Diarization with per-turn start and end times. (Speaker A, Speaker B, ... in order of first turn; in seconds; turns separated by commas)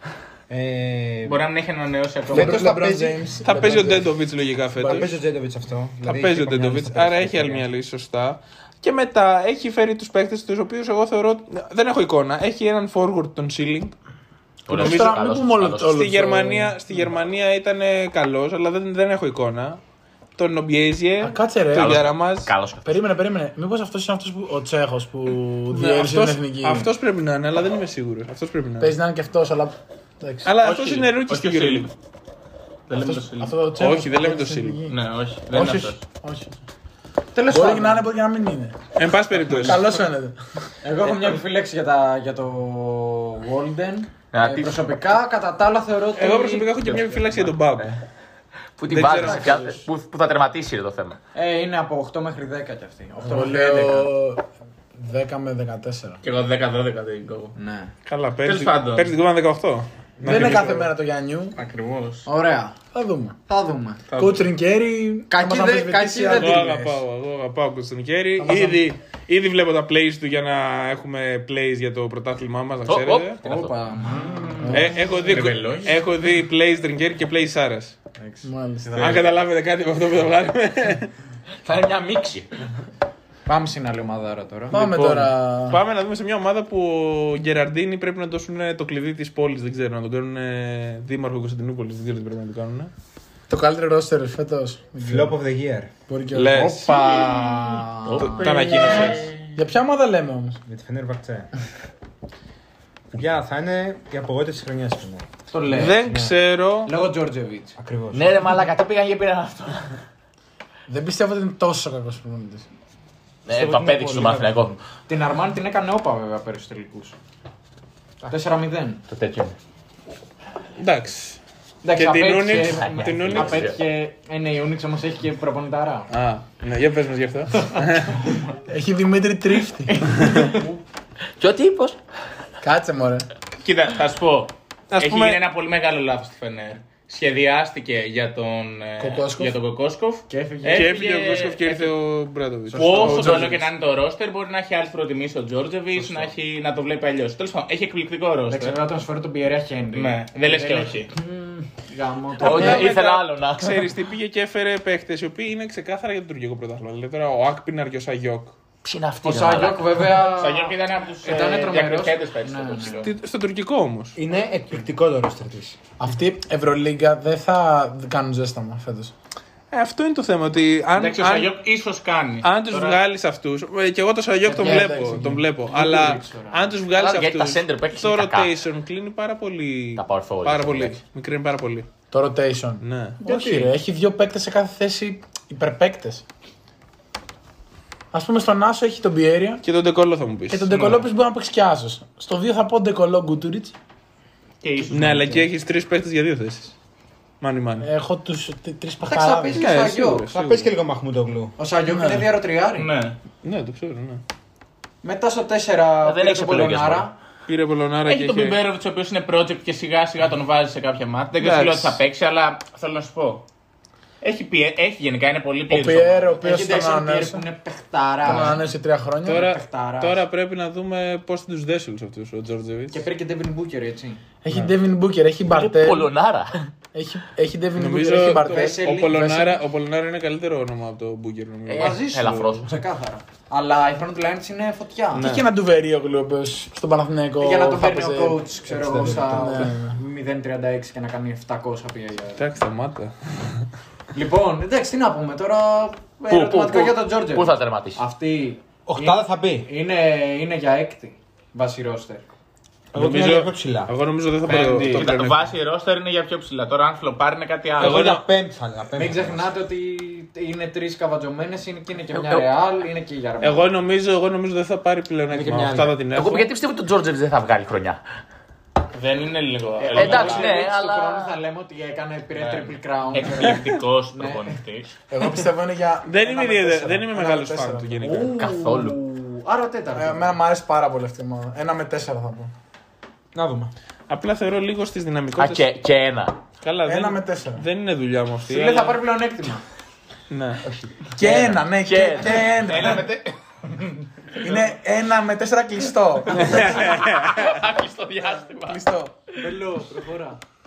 Speaker A: 0.5-1.4, Speaker B: 1.2-2.7, Speaker A: 2.3-4.0, Speaker C: 2.3-4.1, Speaker D: 3.4-5.1, Speaker C: 4.8-5.1, Speaker A: 4.8-7.7, Speaker D: 6.0-13.9, Speaker E: 14.7-16.0, Speaker D: 14.7-15.2, Speaker C: 14.7-16.8, Speaker D: 15.9-19.8, Speaker D: 20.4-22.5, Speaker C: 21.2-22.1, Speaker E: 21.7-22.8, Speaker C: 22.8-26.9, Speaker D: 25.7-28.9, Speaker C: 28.8-30.5, Speaker D: 30.4-31.9, Speaker B: 30.6-31.9, Speaker B: 32.9-33.5, Speaker C: 32.9-35.0, Speaker D: 33.8-34.8, Speaker B: 34.9-36.0, Speaker C: 35.5-36.6, Speaker F: 37.3-38.0, Speaker C: 37.5-38.8, Speaker D: 38.9-39.8, Speaker C: 39.6-40.4, Speaker F: 40.8-46.8, Speaker E: 44.3-44.8, Speaker D: 46.1-48.0, Speaker B: 46.9-47.4, Speaker E: 48.8-51.2, Speaker D: 48.9-49.8, Speaker F: 51.3-54.1, Speaker C: 53.2-56.2, Speaker B: 56.2-57.5, Speaker F: 57.5-57.9, Speaker D: 58.0-60.9, Speaker B: 58.4-59.1, Speaker A: 60.2-60.5, Speaker C: 60.2-61.5, Speaker B: 61.5-62.3, Speaker F: 62.2-62.8, Speaker C: 62.9-63.4, Speaker F: 63.5-64.0, Speaker B: 64.1-64.5, Speaker C: 64.2-66.8, Speaker F: 65.3-67.0, Speaker D: 66.3-73.4, Speaker C: 68.4-68.8, Speaker E: 72.8-73.7, Speaker F: 73.4-75.0, Speaker B: 74.1-75.9, Speaker D: 74.7-78.0, Speaker F: 78.2-79.3, Speaker C: 78.4-79.2, Speaker D: 79.0-81.1, Speaker E: 81.6-82.5, Speaker F: 83.5-84.8, Speaker C: 84.7-85.8, Speaker D: 84.8-92.9, Speaker C: 93.5-95.4, Speaker A: 95.0-95.9, Speaker C: 96.1-96.9, Speaker D: 96.3-97.0, Speaker F: 96.5-99.1, Speaker E: 98.0-99.2, Speaker D: 98.2-99.3, Speaker C: 99.5-100.6, Speaker A: 100.7-101.5, Speaker A: 103.1-106.3, Speaker F: 105.5-106.1, Speaker D: 105.7-106.9, Speaker F: 106.8-107.7, Speaker A: 107.8-108.6, Speaker E: 108.1-110.0, Speaker C: 110.9-112.7, Speaker E: 113.5-114.8, Speaker A: 113.5-114.5, Speaker F: 115.1-117.2, Speaker F: 118.3-119.0, Speaker E: 119.1-119.5, Speaker D: 120.8-121.4, Speaker F: 121.8-126.1, Speaker D: 121.9-123.7, Speaker E: 122.6-123.8, Speaker D: 126.1-128.3, Speaker C: 128.6-130.3, Speaker D: 130.2-130.5, Speaker F: 130.4-130.7, Speaker E: 131.4-132.0, Speaker C: 132.6-133.3, Speaker B: 133.6-141.9, Speaker D: 134.9-135.4, Speaker C: 139.0-139.6, Speaker F: 140.3-141.0, Speaker D: 140.7-143.6, Speaker F: 142.7-143.6, Speaker B: 142.7-148.8, Speaker F: 148.5-152.9, Speaker B: 149.9-151.1, Speaker E: 152.4-153.8, Speaker D: 152.4-158.6, Speaker E: 158.8-160.0, Speaker F: 159.2-163.1, Speaker B: 160.2-163.1, Speaker D: 163.0-164.2, Speaker A: 164.2-165.8, Speaker C: 166.0-169.1, Speaker D: 169.7-171.5, Speaker B: 170.9-173.0, Speaker D: 172.4-181.9, Speaker F: 174.4-176.7, Speaker E: 176.9-178.6, Speaker E: 179.9-181.0, Speaker C: 182.1-186.2, Speaker D: 182.8-183.2, Speaker F: 183.2-183.7, Speaker C: 188.1-189.6, Speaker D: 189.6-191.0, Speaker C: 190.5-193.7, Speaker B: 194.6-195.4, Speaker D: 194.9-196.7, Speaker D: 197.4-197.9, Speaker C: 197.8-199.7, Speaker F: 199.0-200.3, Speaker D: 199.5-200.7, Speaker A: 200.2-201.6, Speaker F: 201.6-202.9, Speaker C: 201.9-202.3, Speaker B: 202.8-203.2, Speaker D: 203.4-204.2, Speaker F: 205.0-207.1, Speaker E: 206.0-207.1, Speaker D: 207.4-208.6, Speaker B: 208.1-213.4, Speaker D: 211.4-212.0, Speaker B: 214.2-216.4, Speaker C: 215.7-217.4, Speaker F: 216.4-218.7, Speaker C: 218.2-219.5, Speaker D: 219.2-223.0, Speaker F: 219.2-220.2, Speaker F: 222.9-224.2, Speaker C: 224.4-226.1, Speaker E: 225.4-226.7, Speaker C: 226.9-228.9, Speaker D: 227.7-232.5, Speaker F: 228.3-229.6, Speaker E: 231.7-232.7, Speaker F: 231.8-235.3, Speaker D: 235.1-235.4, Speaker C: 235.2-238.4, Speaker F: 237.4-242.4, Speaker A: 238.7-239.7, Speaker C: 239.2-239.9, Speaker D: 242.4-243.7, Speaker F: 244.1-252.2, Speaker E: 246.3-248.0, Speaker A: 248.8-249.7, Speaker D: 252.9-255.5, Speaker A: 252.9-253.9, Speaker B: 254.4-258.0, Speaker A: 257.8-259.5, Speaker D: 257.8-258.2, Speaker F: 258.9-263.7, Speaker E: 262.1-262.4, Speaker D: 263.4-266.5, Speaker A: 265.3-266.0, Speaker E: 266.1-268.0, Speaker B: 268.9-270.5, Speaker F: 269.8-274.6, Speaker E: 269.9-271.3, Speaker B: 272.4-274.9, Speaker C: 275.1-278.3, Speaker D: 276.0-278.4, Speaker F: 278.0-280.4, Speaker E: 278.4-279.0, Speaker C: 279.9-282.5, Speaker A: 283.3-283.7, Speaker D: 284.1-285.6, Speaker E: 285.4-286.4, Speaker D: 286.6-289.0, Speaker C: 286.9-287.6, Speaker F: 288.4-289.6, Speaker D: 290.3-290.6, Speaker C: 291.2-293.1, Speaker E: 291.2-292.6, Speaker B: 292.6-294.6, Speaker C: 294.4-296.9, Speaker D: 296.3-297.6, Speaker B: 296.4-298.8, Speaker C: 298.6-299.1, Speaker F: 299.4-300.4